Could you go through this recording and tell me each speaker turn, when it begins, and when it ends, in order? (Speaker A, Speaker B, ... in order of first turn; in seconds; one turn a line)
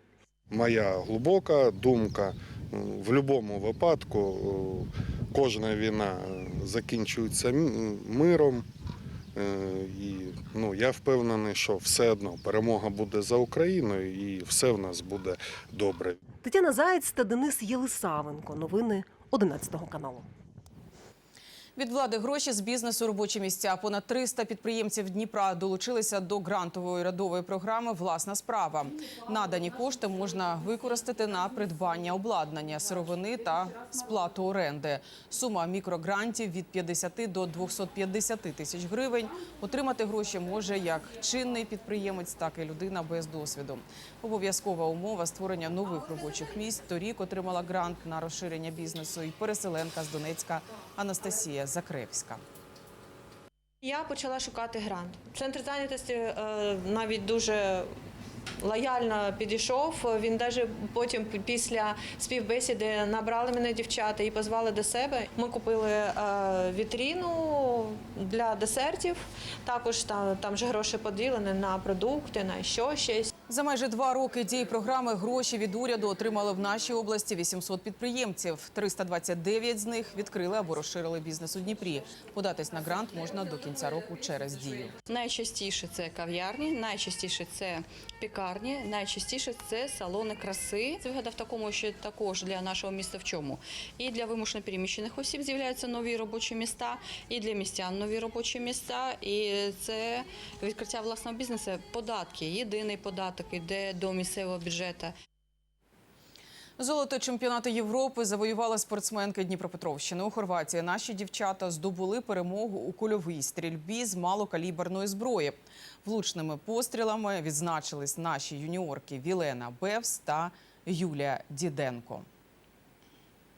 Speaker A: 0.5-8.7
Speaker A: 9.4-16.2
Speaker B: 16.4-20.3
Speaker C: 21.8-52.4
Speaker D: 53.8-57.9
Speaker D: 58.6-73.3
Speaker C: 73.5-84.9
Speaker E: 85.1-105.2
Speaker C: 106.8-122.3